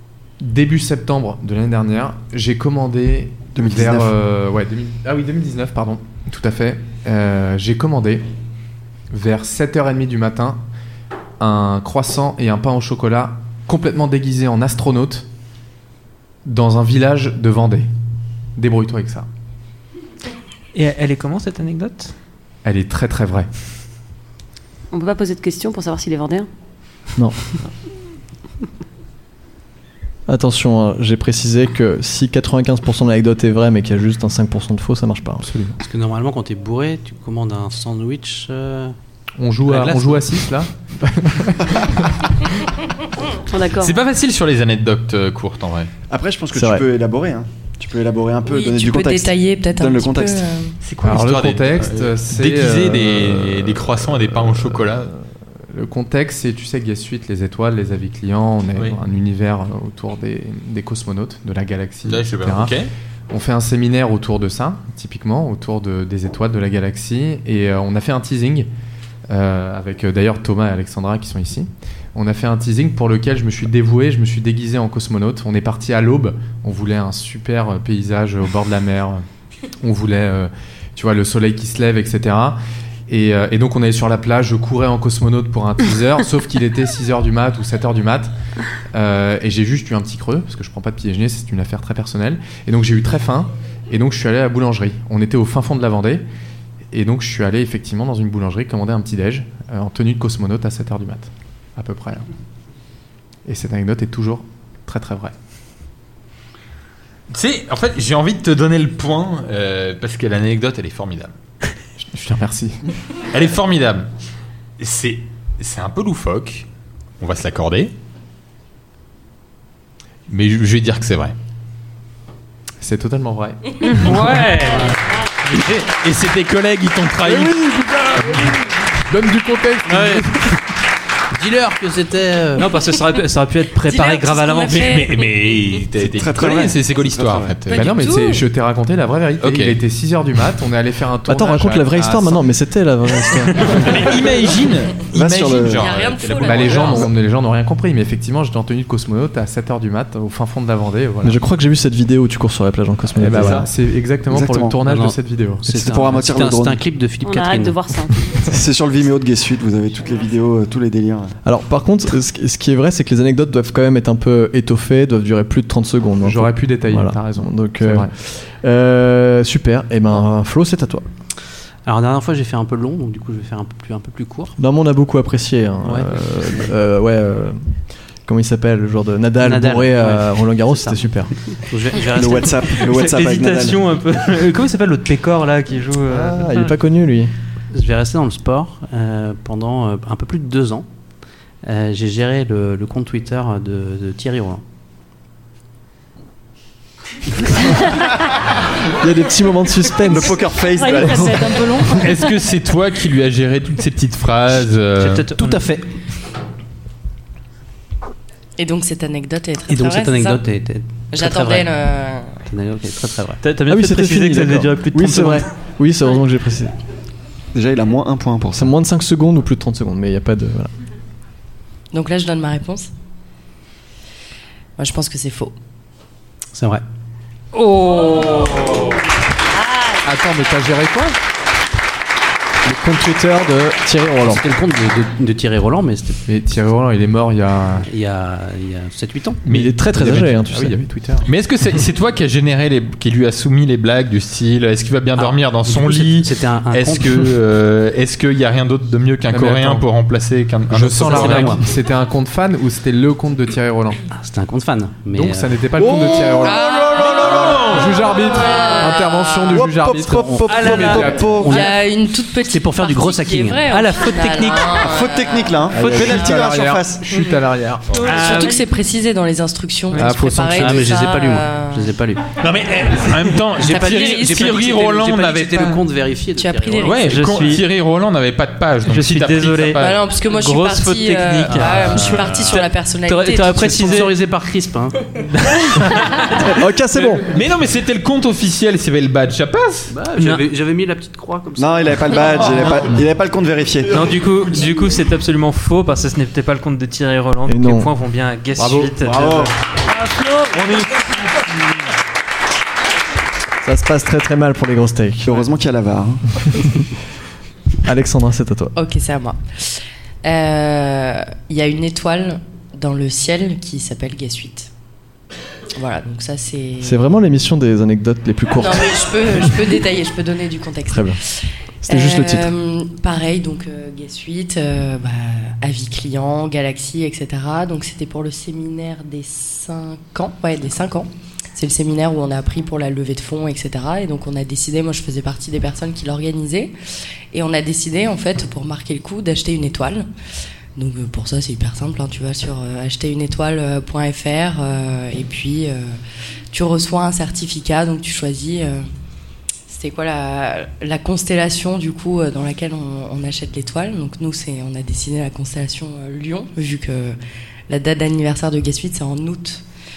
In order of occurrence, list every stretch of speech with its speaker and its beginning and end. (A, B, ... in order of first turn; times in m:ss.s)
0:00.4-0:08.2 A
0:03.5-0:04.1 B
0:09.1-0:10.6 A
0:11.4-0:15.2 A
0:16.4-0:17.9 A
0:18.6-0:19.3 A
0:20.8-0:22.1 C
0:22.6-0:23.5 A
0:24.9-0:26.5 D
0:30.3-0:35.5 E
0:35.4-0:35.8 A
0:35.8-0:39.0 F
0:39.4-0:41.6 A
0:39.7-0:40.1 F
0:43.5-0:44.0 D
0:43.8-0:45.9 G
0:46.1-0:50.5 B
0:46.5-0:46.8 E
0:48.5-0:50.8 H
0:50.8-0:55.1 G
0:51.0-0:55.0 A
0:55.7-1:02.8 A
1:02.0-1:02.9 G
1:03.3-1:08.7 A
1:09.3-1:19.2 A
1:19.8-1:28.3 A
1:28.9-1:36.2 A
1:36.9-1:42.3 A
1:43.5-1:45.3 A
1:47.3-1:51.3 G
1:52.1-1:52.8 A
1:53.3-1:54.1 G
1:54.8-1:56.7 G
1:57.2-1:57.9 G
2:00.3-2:01.4 G
2:02.8-2:04.2 A
2:03.8-2:05.0 C
2:05.5-2:07.7 G
2:07.2-2:08.5 A
2:09.1-2:10.5 A
2:09.9-2:10.3 F
2:11.3-2:12.7 F
2:12.6-2:15.0 C
2:13.8-2:15.2 H
2:14.7-2:18.0 G
2:16.0-2:17.6 B
2:17.7-2:18.4 H
2:17.7-2:22.5 A
2:19.4-2:19.8 G
2:21.3-2:23.9 E
2:23.7-2:27.1 G
2:25.1-2:25.9 B
2:25.6-2:27.1 H
2:26.4-2:31.4 A
2:31.2-2:33.7 E
2:33.2-2:35.7 A
2:34.3-2:34.8 B
2:34.8-2:37.9 F
2:35.7-2:36.8 B
2:37.2-2:38.4 D
2:38.4-2:41.4 B
2:41.4-2:51.0 E
2:46.2-2:48.1 A
2:51.8-2:54.6 F
2:54.6-2:57.7 E
2:55.8-2:56.7 F
2:58.3-3:01.3 E
2:59.4-3:02.7 F
3:02.1-3:03.8 B
3:02.7-3:06.8 C
3:06.1-3:07.3 E
3:07.7-3:10.9 F
3:11.6-3:14.6 F
3:19.0-3:20.4 E
3:20.1-3:21.8 B
3:20.7-3:22.3 D
3:22.0-3:25.3 G
3:25.0-3:25.8 C
3:25.4-3:25.8 F
3:28.6-3:30.4 H
3:29.7-3:31.7 F
3:31.1-3:32.4 H
3:32.5-3:33.4 F
3:33.4-3:35.5 C
3:33.7-3:36.7 E
3:37.5-3:38.7 B
3:38.6-3:40.7 E
3:41.9-3:42.9 H
3:44.8-3:45.6 H
3:46.6-3:46.8 F
3:47.6-3:48.8 C
3:49.6-3:50.0 D
3:50.0-3:51.2 A
3:52.6-3:54.4 E
3:54.2-3:56.2 F
3:56.3-3:57.9 A
3:57.8-3:59.4 F
3:59.4-4:00.3 G
3:59.5-4:00.8 E
4:00.0-4:01.3 A
4:01.2-4:11.6 G
4:05.2-4:07.4 F
4:09.3-4:09.9 A
4:10.7-4:14.0 A
4:11.1-4:11.6 F
4:14.2-4:15.6 F
4:15.1-4:21.4 A
4:16.4-4:17.6 H
4:17.1-4:17.6 B
4:18.2-4:19.5 H
4:19.5-4:21.6 B
4:20.5-4:21.2 C
4:21.4-4:25.6 H
4:21.4-4:21.8 F
4:22.4-4:23.7 F
4:23.6-4:24.8 C
4:24.8-4:27.1 B
4:25.7-4:28.0 A
4:28.0-4:32.0 H
4:28.0-4:28.6 C
4:29.9-4:30.2 C
4:30.0-4:30.9 A
4:30.6-4:32.3 F
4:32.4-4:35.8 G
4:33.6-4:34.6 H
4:33.6-4:37.2 F
4:36.4-4:37.0 H
4:36.8-4:40.1 G
4:37.0-4:37.6 C
4:38.9-4:44.1 C
4:39.8-4:44.1 H
4:41.5-4:42.5 F
4:43.7-4:45.2 F
4:45.5-4:46.5 C
4:46.6-4:47.3 E
4:47.3-4:49.9 G
4:49.9-4:52.6 F
4:50.2-4:50.4 C
4:51.6-4:54.1 B
4:53.9-4:59.4 C
4:57.5-4:57.9 E
4:58.6-4:59.5 A
4:58.9-4:59.5 B
5:00.0-5:00.4 C
5:03.6-5:05.4 E
5:05.3-5:06.7 B
5:07.8-5:08.7 E
5:08.8-5:14.7 H
5:15.8-5:17.0 H
5:16.8-5:19.5 E
5:18.5-5:36.7 H
5:20.9-5:21.2 E
5:21.8-5:22.5 E
5:37.3-5:40.1 H
5:40.8-5:46.0 H
5:46.5-5:48.9 H
5:49.7-5:57.2 H
5:57.7-5:59.6 H